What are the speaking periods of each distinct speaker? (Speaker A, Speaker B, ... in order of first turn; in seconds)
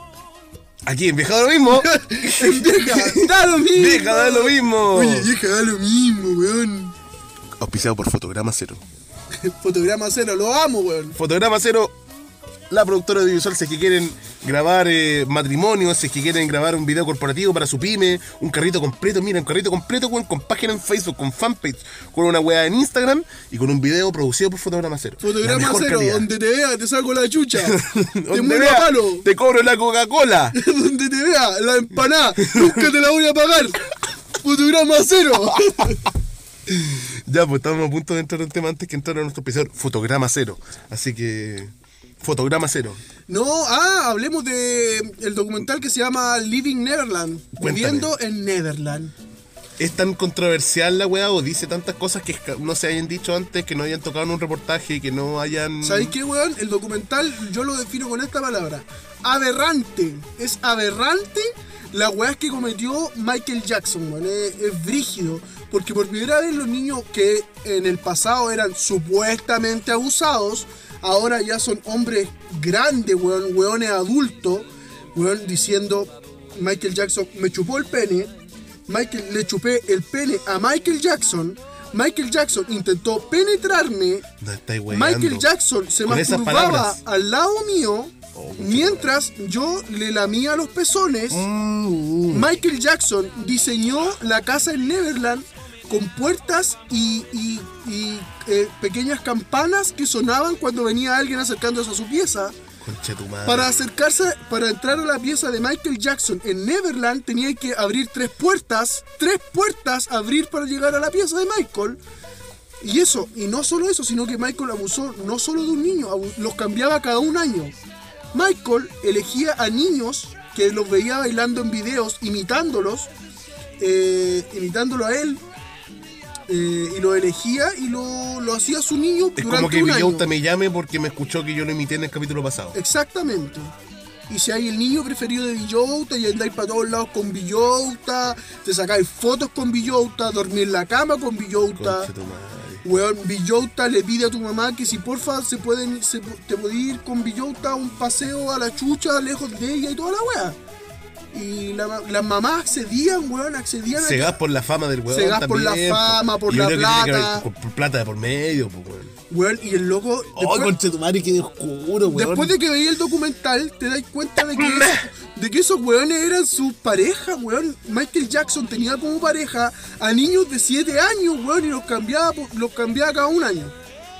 Speaker A: 0.8-5.3, 7.6-8.8, 11.2-11.9, 12.7-26.3, 27.6-30.6, 32.4-32.9, 35.6-35.9, 36.6-43.0, 47.6-48.1, 49.8-56.1, 84.4-85.5, 86.0-87.0, 88.3-89.2, 91.3-92.5, 102.8-103.8, 129.4-132.8, 141.8-142.8, 153.9-159.1, 160.3-162.6, 164.5-165.1
Speaker B: 1.7-6.9, 9.4-11.2, 25.2-27.8, 28.3-29.3, 30.5-33.9, 34.4-36.1, 43.3-49.1, 55.8-78.3, 78.9-84.2, 84.9-91.5, 92.3-102.5, 103.5-112.0, 112.8-117.7, 118.3-123.1, 123.8-125.4, 126.5-130.3, 132.7-133.7, 134.3-142.1, 142.8-150.6, 151.3-154.3, 155.1-157.4, 159.3-160.7, 162.0-173.7